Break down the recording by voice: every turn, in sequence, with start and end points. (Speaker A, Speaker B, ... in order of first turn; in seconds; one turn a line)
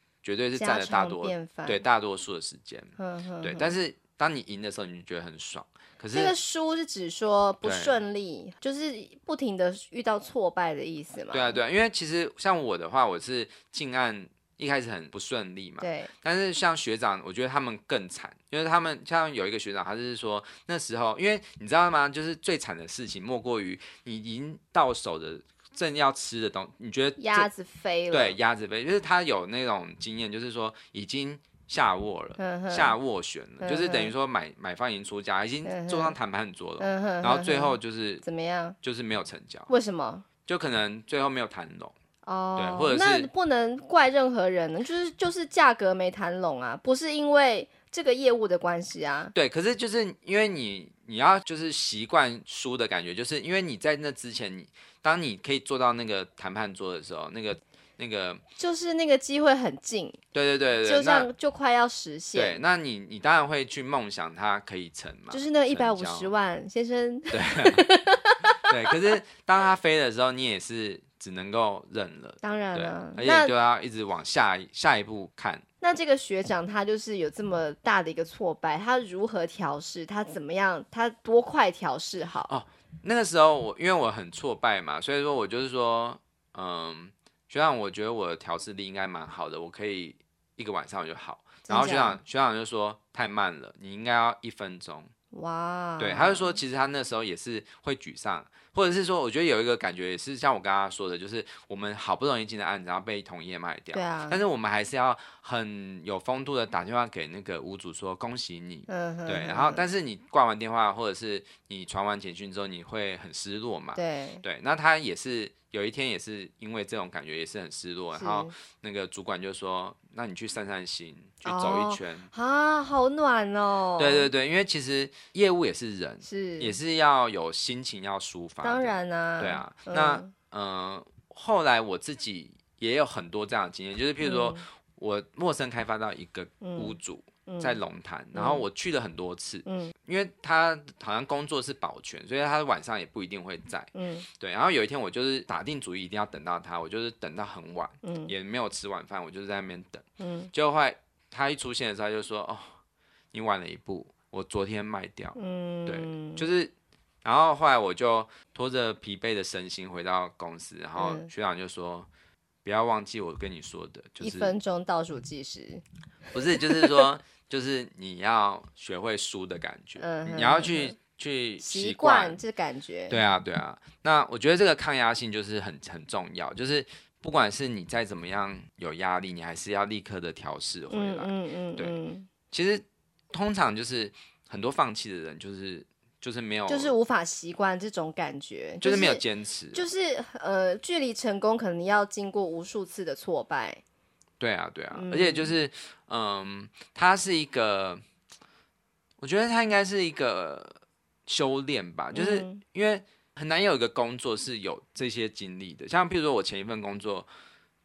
Speaker A: 0.2-6.3
Speaker B: 0.6-1.8
Speaker B: 3.0-3.8
Speaker B: 6.1-11.6
Speaker A: 7.6-8.0
Speaker A: 11.3-27.5
Speaker B: 15.8-16.1
Speaker B: 27.2-28.4
Speaker A: 28.1-38.2
Speaker B: 32.4-33.0
Speaker B: 33.6-34.1
Speaker B: 35.6-36.2
Speaker B: 36.8-38.8
Speaker A: 38.8-39.7
Speaker B: 39.7-40.3
Speaker A: 40.5-41.9
Speaker B: 42.2-49.3
Speaker A: 42.6-43.3
Speaker A: 49.3-58.4
Speaker B: 58.6-60.2
Speaker A: 60.3-61.3
Speaker B: 60.8-62.6
Speaker A: 62.4-66.3
Speaker B: 65.3-68.8
Speaker A: 67.3-67.8
Speaker A: 68.5-75.7
Speaker B: 72.4-73.5
Speaker B: 75.8-82.5
Speaker A: 82.5-95.1
Speaker B: 91.7-92.2
Speaker B: 95.3-96.6
Speaker A: 96.0-122.3
Speaker B: 103.9-104.4
Speaker B: 108.9-109.8
Speaker B: 114.0-114.4
Speaker B: 118.2-118.5
Speaker B: 121.4-124.3
Speaker A: 124.0-152.8
Speaker B: 126.2-126.8
Speaker B: 128.6-130.3
Speaker B: 134.2-134.6
Speaker B: 136.6-137.8
Speaker B: 138.3-138.7
Speaker B: 139.7-139.9
Speaker B: 143.9-144.3
Speaker B: 148.0-148.3
Speaker B: 150.2-150.5
Speaker A: 153.3-156.7
Speaker B: 155.4-156.4
Speaker A: 157.2-162.1
Speaker B: 161.0-161.3
Speaker A: 162.7-164.6
Speaker B: 164.2-165.8
Speaker A: 166.3-172.4
Speaker B: 166.6-167.0
Speaker B: 170.0-171.0
Speaker B: 171.6-173.2
Speaker A: 173.1-182.0
Speaker B: 180.9-182.3
Speaker A: 182.5-186.9
Speaker B: 186.7-189.2
Speaker A: 188.8-189.9
Speaker B: 189.7-193.8
Speaker A: 194.4-198.0
Speaker B: 194.9-195.5
Speaker A: 199.2-207.3
Speaker B: 202.1-202.6